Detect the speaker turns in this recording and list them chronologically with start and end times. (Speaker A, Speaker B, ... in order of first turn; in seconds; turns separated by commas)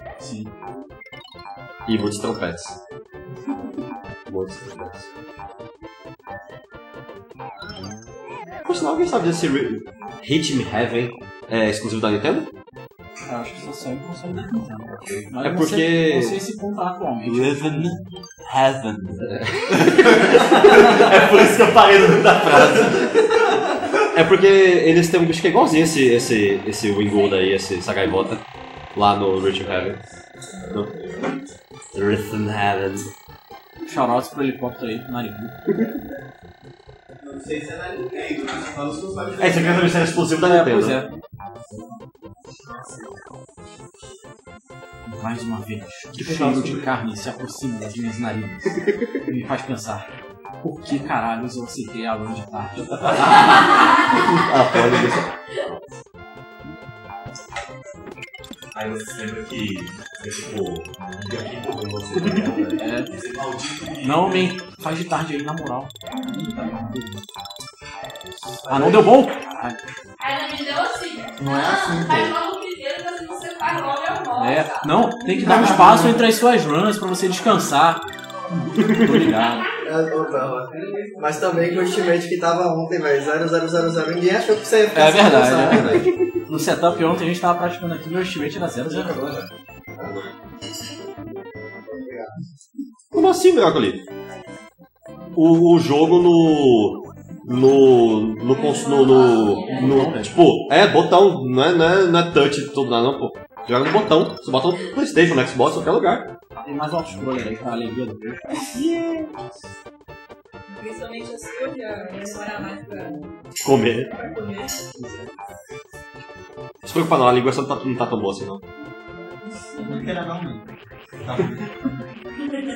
Speaker A: 0.2-0.5, Speaker B: 1.9-2.8, Speaker B: 4.3-5.1, Speaker B: 8.7-12.5, Speaker A: 13.3-17.9, Speaker B: 15.0-16.4, Speaker B: 17.3-18.0, Speaker C: 17.4-17.8, Speaker C: 18.4-19.2, Speaker B: 19.2-23.4, Speaker B: 24.1-28.4, Speaker B: 28.9-30.0, Speaker B: 31.9-33.1, Speaker A: 33.9-35.7, Speaker D: 37.2-40.2, Speaker B: 39.4-41.0, Speaker A: 40.4-41.1, Speaker E: 42.5-43.2, Speaker A: 45.1-50.1, Speaker B: 46.2-46.8, Speaker A: 50.6-54.0, Speaker B: 53.3-55.3, Speaker C: 58.7-64.5, Speaker A: 62.8-63.1, Speaker A: 64.0-67.2, Speaker A: 68.7-69.8, Speaker F: 70.2-74.9, Speaker E: 71.4-72.3, Speaker A: 74.3-78.0, Speaker E: 75.5-76.1, Speaker A: 78.9-79.7, Speaker G: 79.8-86.1, Speaker A: 84.9-89.4, Speaker B: 85.7-86.2, Speaker B: 93.1-94.0, Speaker B: 95.3-106.3, Speaker F: 98.5-100.1, Speaker A: 99.7-100.5, Speaker A: 106.6-108.6, Speaker B: 108.7-109.3, Speaker F: 110.7-113.2, Speaker B: 113.6-114.1, Speaker F: 114.2-114.7, Speaker A: 115.0-115.3, Speaker B: 116.8-118.6, Speaker E: 119.8-122.0